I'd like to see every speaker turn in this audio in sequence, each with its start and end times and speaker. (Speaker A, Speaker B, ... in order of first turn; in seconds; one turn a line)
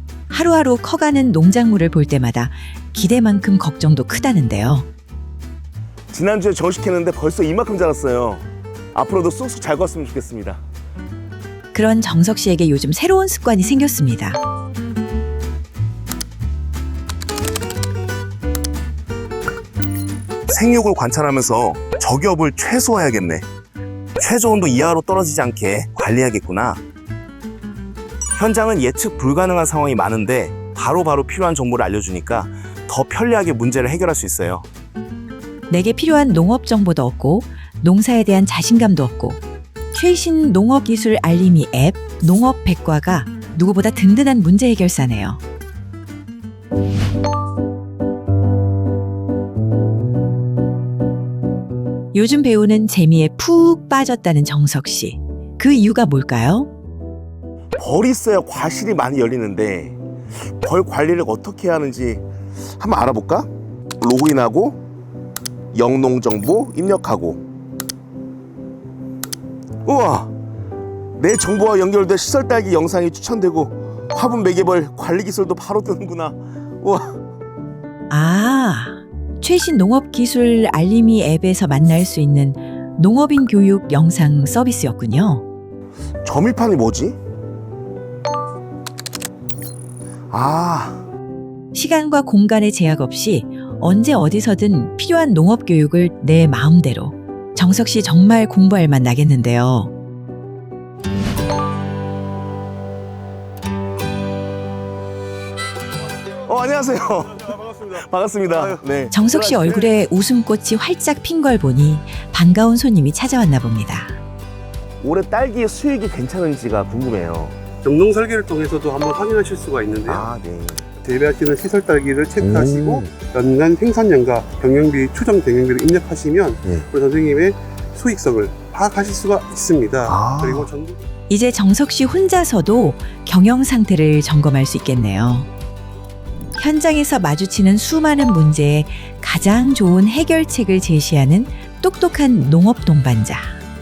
Speaker A: 0.3-4.9
Speaker B: 6.1-10.6
Speaker A: 11.7-14.4
Speaker B: 20.5-23.4
Speaker B: 24.2-26.8
Speaker B: 28.4-34.6
Speaker A: 35.7-39.4
Speaker A: 39.9-45.4
Speaker A: 52.1-56.7
Speaker B: 57.8-60.0
Speaker B: 60.6-63.5
Speaker B: 64.0-64.8
Speaker B: 65.7-67.4
Speaker B: 69.8-70.3
Speaker B: 71.2-77.2
Speaker A: 78.1-85.4
Speaker B: 86.2-87.2
Speaker B: 90.3-91.0
Speaker A: 91.7-99.9
Speaker B: 106.4-110.0
Speaker A: 109.1-114.2
Speaker B: 115.0-117.6
Speaker C: 117.8-120.3
Speaker B: 120.0-120.9
Speaker C: 121.0-131.0
Speaker B: 122.4-123.1
Speaker B: 130.0-130.7
Speaker A: 131.3-135.5
Speaker A: 136.6-143.6